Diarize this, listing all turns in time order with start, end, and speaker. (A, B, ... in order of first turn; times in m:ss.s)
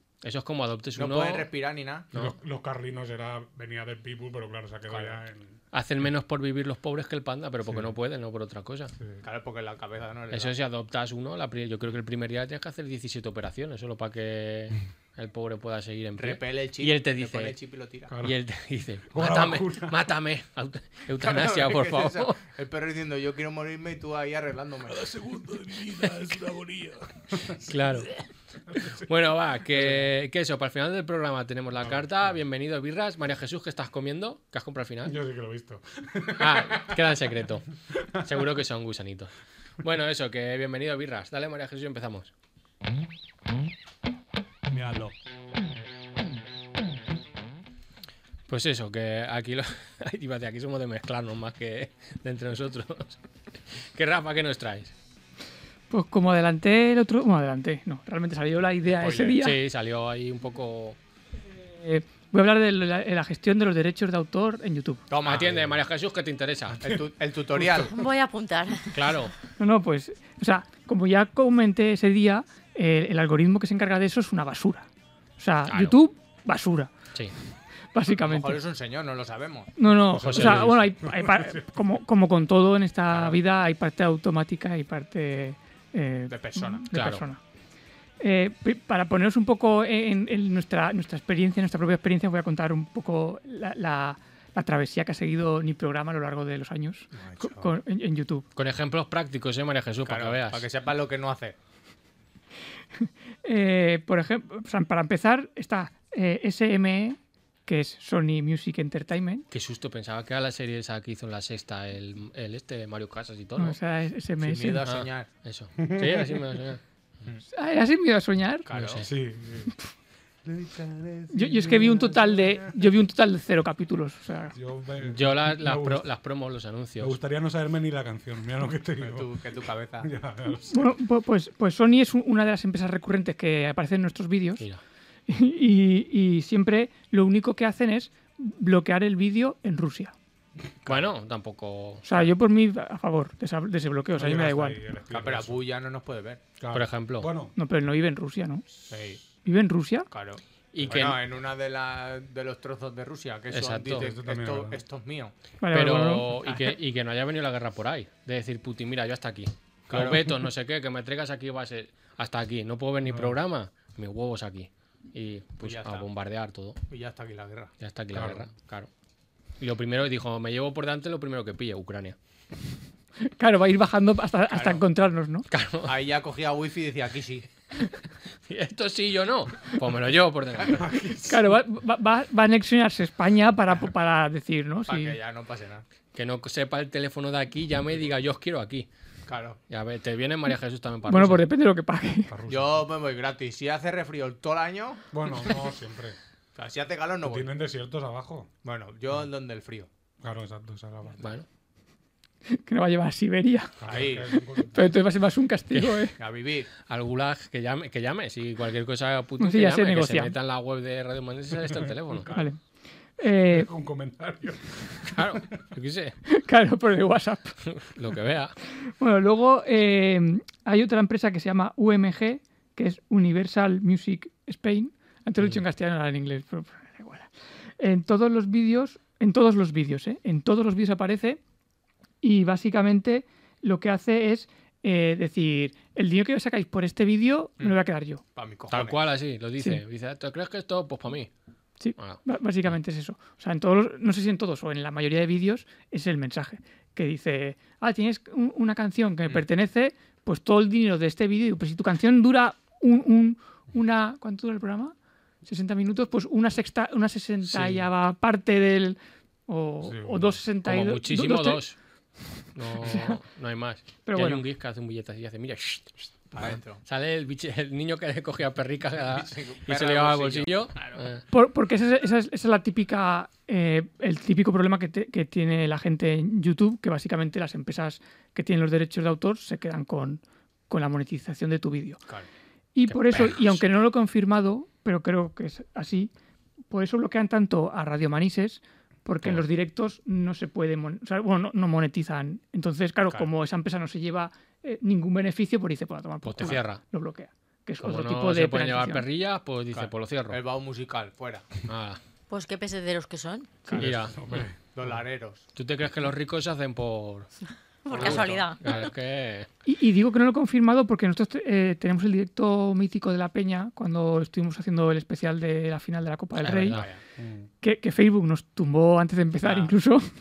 0:00.2-0:01.5 A
0:00.9-0:02.1 B
0:02.1-0:05.6 C
0:04.9-0:05.2 B
0:05.7-0:08.9 A
0:09.2-0:10.5 B
0:10.3-0:17.6 A
0:16.2-0:18.1 B
0:18.1-0:18.4 C
0:18.2-0:22.4 A
0:19.1-0:20.0 C
0:21.2-0:25.1 B
0:24.9-0:28.0 C
0:27.5-0:28.1 A
0:28.7-0:29.0 C
0:28.8-0:35.2 A
0:29.7-0:30.1 C
0:31.8-0:32.3 C
0:35.0-0:37.2 C
0:36.4-0:37.6 A
0:37.9-0:38.5 C
0:38.2-0:42.3 A
0:44.7-0:45.1 C
0:48.5-0:53.2 A
0:53.8-0:54.9 A
0:55.9-0:59.6 D
0:59.0-0:59.4 B
0:59.3-1:01.0 A
1:01.5-1:05.0 D
1:05.1-1:05.8 B
1:05.2-1:06.8 A
1:06.7-1:07.0 C
1:06.8-1:07.9 B
1:07.6-1:07.8 C
1:07.8-1:09.0 E
1:08.9-1:09.3 A
1:09.6-1:14.8 D
1:15.4-1:16.9 D
1:15.7-1:15.9 A
1:17.9-1:18.6 D
1:18.2-1:19.7 B
1:19.8-1:27.4 D
1:20.2-1:21.0 A
1:20.3-1:21.7 C
1:23.1-1:23.4 B
1:26.3-1:26.8 B
1:26.9-1:27.2 A
1:28.2-1:38.5 D
1:37.1-1:37.7 B
1:38.6-1:40.6 A
1:40.0-1:41.6 B
1:43.4-1:49.4 D
1:49.5-1:53.8 A
1:53.6-1:54.8 D
1:54.4-1:55.3 B
1:54.8-1:56.8 A
1:55.8-1:56.5 C
1:57.5-1:58.7 D
1:58.6-1:59.1 B
1:58.7-1:59.1 A
1:59.0-1:59.7 C
2:00.4-2:02.8 C
2:01.3-2:04.5 D
2:04.5-2:06.0 C
2:05.0-2:07.2 A
2:07.0-2:09.3 C
2:09.0-2:10.1 B
2:10.0-2:10.9 C
2:10.7-2:14.6 D
2:15.3-2:20.1 D
2:20.8-2:22.3 A
2:22.0-2:24.8 D
2:24.1-2:25.6 C
2:25.1-2:26.4 B
2:26.6-2:27.5 C
2:26.7-2:27.3 A
2:27.6-2:28.6 D
2:28.9-2:29.2 B
2:29.4-2:30.1 D
2:30.1-2:35.3 B
2:30.7-2:31.2 A
2:33.5-2:34.1 A
2:33.9-2:34.8 C
2:35.6-2:36.6 D
2:35.7-2:46.8 A
2:39.9-2:40.4 B
2:43.0-2:43.4 C
2:45.6-2:46.1 B
2:46.9-2:47.7 B
2:47.8-2:48.9 A
2:48.1-2:48.5 C
2:49.6-2:52.2 A
2:53.2-2:55.5 D
2:54.5-2:54.8 B
2:55.5-2:55.9 A
2:55.8-2:57.4 B
2:58.4-3:00.9 A
3:00.7-3:01.4 C
3:01.2-3:05.2 D
3:04.9-3:05.8 B
3:06.1-3:08.9 A
3:09.3-3:09.6 B
3:09.7-3:11.4 A
3:11.1-3:12.3 D
3:12.3-3:12.8 C
3:12.5-3:15.5 B
3:15.1-3:16.2 C
3:16.5-3:17.5 B
3:17.2-3:18.5 C
3:18.6-3:19.9 B
3:20.2-3:21.2 C
3:21.2-3:21.4 A
3:22.4-3:23.8 D
3:23.8-3:24.9 C
3:23.8-3:24.3 B
3:24.3-3:26.2 D
3:25.7-3:26.0 A
3:26.2-3:26.7 B
3:26.8-3:32.3 A
3:29.4-3:30.3 D
3:31.7-3:32.4 C
3:32.3-3:32.6 D
3:33.2-3:33.7 D
3:33.5-3:35.5 C
3:35.1-3:36.2 A
3:36.2-3:37.6 D
3:37.7-3:38.5 A
3:38.9-3:51.4 D
3:52.2-3:58.2 D
3:58.3-3:59.1 B
3:58.7-4:01.3 A
4:01.8-4:14.9 D
4:15.4-4:21.6 D
4:17.5-4:17.8 A
4:19.8-4:20.4 C
4:20.6-4:21.8 A
4:22.5-4:31.2 A
4:22.7-4:23.2 D
4:24.0-4:24.4 D
4:26.3-4:26.8 B
4:29.0-4:31.0 B
4:31.3-4:42.0 D
4:42.7-4:46.1 D
4:42.9-4:43.6 A
4:46.7-4:59.0 D
4:56.2-4:56.8 A
4:57.8-5:00.4 A
4:59.7-5:01.5 B
5:01.7-5:02.0 A
5:02.3-5:03.7 E
5:03.6-5:04.0 B
5:03.7-5:04.9 C
5:03.7-5:04.4 A
5:04.7-5:05.4 B
5:05.5-5:07.3 A
5:07.8-5:08.9 E
5:07.9-5:08.5 B
5:07.9-5:09.5 A
5:09.6-5:16.8 D
5:16.4-5:16.9 A
5:16.7-5:17.0 B
5:17.2-5:17.5 C
5:17.6-5:20.1 D
5:19.4-5:19.7 B